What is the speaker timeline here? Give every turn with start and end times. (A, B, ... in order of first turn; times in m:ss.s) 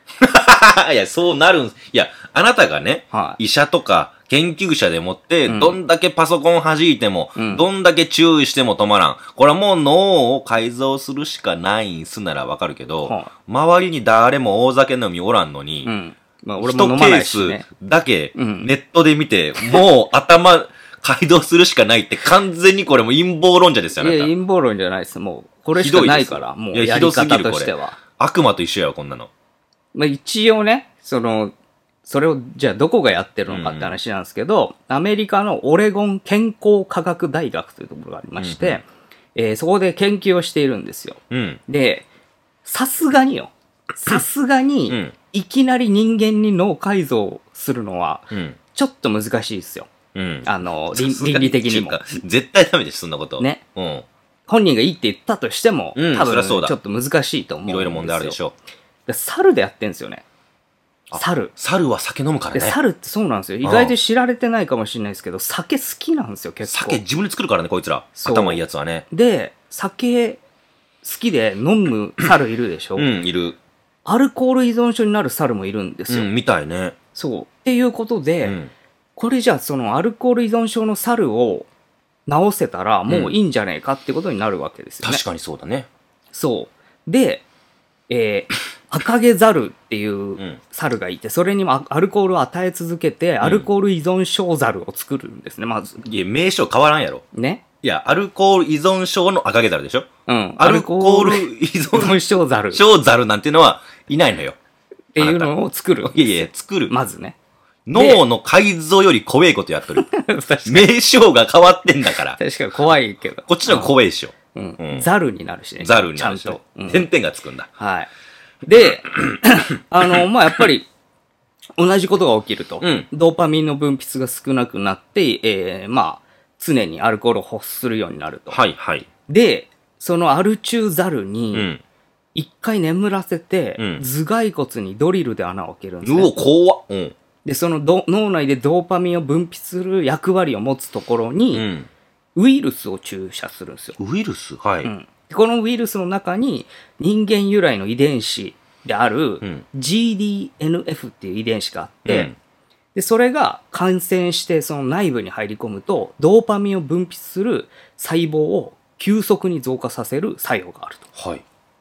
0:00.2-0:15.9 A
0:03.1-0:03.4 B
0:05.4-0:05.8 B
0:07.4-0:07.6 B
0:13.0-0:13.3 B
0:15.8-0:17.6 B
0:16.6-0:24.3 A
0:18.3-0:18.7 B
0:24.0-0:28.0 B
0:25.7-0:29.3 A
0:29.9-0:38.8 B
0:33.5-0:34.0 A
0:38.4-0:38.8 A
0:39.3-0:42.1 B
0:41.3-0:41.6 A
0:42.6-0:49.9 B
0:44.9-0:45.1 A
0:48.3-0:48.6 A
0:50.1-0:54.0 A
0:50.4-0:52.0 B
0:54.5-0:58.4 B
0:55.9-0:56.8 A
0:57.6-0:58.5 A
0:59.1-1:00.2 B
1:01.1-1:02.8 A
1:01.1-1:01.5 B
1:02.5-1:07.0 B
1:03.6-1:03.9 A
1:06.6-1:09.0 A
1:08.2-1:10.4 B
1:11.0-1:13.1 B
1:13.0-1:13.6 A
1:14.0-1:16.3 B
1:16.1-1:17.0 A
1:17.1-1:18.6 B
1:18.4-1:18.7 A
1:19.2-1:21.7 B
1:22.3-1:25.2 B
1:23.1-1:23.4 A
1:25.0-1:25.9 A
1:26.3-1:27.4 B
1:28.1-1:36.0 B
1:33.4-1:33.7 A
1:36.0-1:37.2 A
1:37.3-1:37.6 B
1:37.8-1:40.1 A
1:40.3-1:42.8 B
1:40.6-1:42.2 A
1:42.7-1:44.6 A
1:45.1-1:47.4 B
1:45.2-1:45.5 A
1:46.0-1:46.9 A
1:47.8-1:50.1 A
1:47.9-1:48.2 B
1:49.9-1:50.9 B
1:50.6-1:52.4 A
1:52.4-1:53.9 B
1:53.5-1:55.1 A
1:54.5-1:57.1 B
1:55.8-1:57.7 A
1:57.8-1:58.1 B
1:58.6-2:00.9 B
2:01.8-2:08.6 B
2:02.8-2:03.1 A
2:08.5-2:09.1 A
2:09.3-2:11.7 B
2:11.5-2:11.8 A
2:12.3-2:16.4 B
2:13.8-2:14.0 A
2:16.0-2:17.1 A
2:17.4-2:21.7 B
2:21.5-2:21.9 A
2:22.4-2:24.0 B
2:24.0-2:24.9 A
2:24.8-2:32.3 B
2:32.0-2:32.3 A
2:32.9-2:41.0 B
2:41.1-2:41.4 A